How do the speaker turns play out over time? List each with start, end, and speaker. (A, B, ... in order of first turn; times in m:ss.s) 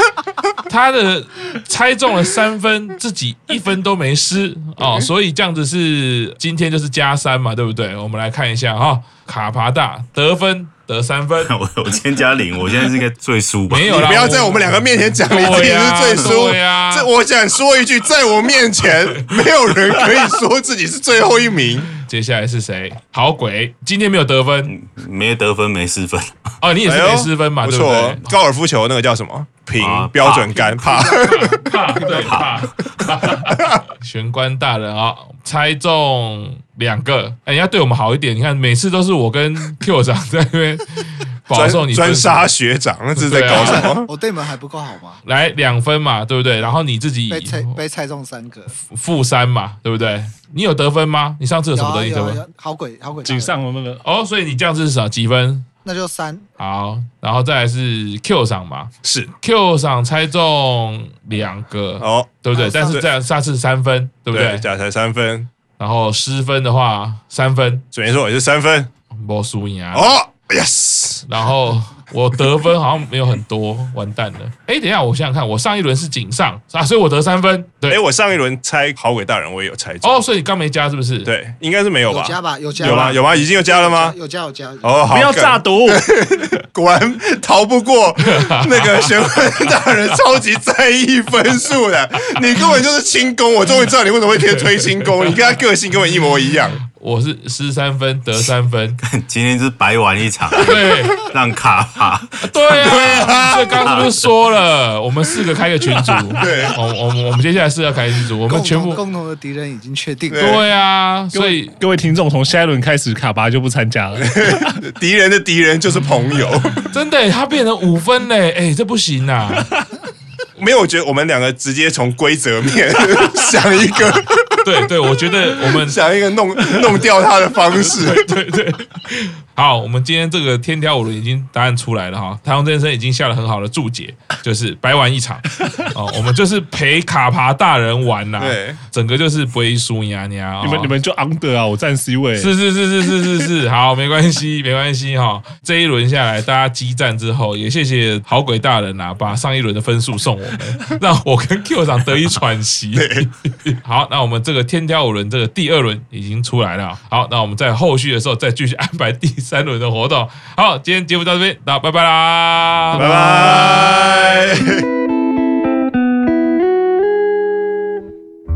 0:00.7-0:11.5 A
0:11.4-0:14.3 B
0:13.7-0:17.1 A
0:13.8-0:21.9 C
0:16.1-0:16.4 B
0:22.0-0:24.7 A
0:24.7-0:26.5 B
0:26.6-0:28.3 A
0:26.8-0:32.2 C
0:29.8-0:31.1 B
0:31.1-0:42.5 A
0:32.1-0:32.7 B
0:33.0-0:33.8 C
0:41.5-0:44.1 C
0:43.2-0:43.9 A
0:43.5-0:45.2 D
0:45.2-0:47.8 A
0:47.3-0:48.8 D
0:48.8-0:52.4 A
0:51.7-0:53.5 D
0:53.2-0:54.0 E
0:54.0-0:55.6 A
0:55.8-0:56.5 D
0:56.6-1:04.6 A
0:59.0-0:59.3 C
1:02.0-1:03.1 C
1:02.5-1:03.0 D
1:04.3-1:05.5 C
1:05.8-1:07.8 A
1:07.9-1:08.9 C
1:09.2-1:10.2 A
1:09.9-1:11.2 C
1:11.2-1:18.0 A
1:17.9-1:20.2 C
1:20.0-1:21.3 A
1:21.2-1:24.2 C
1:22.1-1:25.0 D
1:22.8-1:23.2 A
1:24.8-1:36.8 C
1:25.1-1:26.1 E
1:28.2-1:29.8 A
1:36.8-1:39.0 A
1:39.0-1:44.2 B
1:40.6-1:41.2 A
1:42.4-1:49.0 A
1:42.7-1:43.8 C
1:45.9-1:46.3 E
1:46.4-1:46.8 C
1:48.5-1:50.6 D
1:50.3-1:50.6 C
1:50.4-1:51.8 A
1:51.3-1:54.8 E
1:54.3-1:56.9 C
1:56.9-1:59.7 A
2:00.6-2:04.6 C
2:04.6-2:06.0 A
2:05.7-2:08.3 C
2:07.7-2:20.9 A
2:18.4-2:18.8 C
2:20.6-2:22.5 E
2:22.4-2:44.4 A
2:33.0-2:33.3 C
2:43.0-2:44.8 C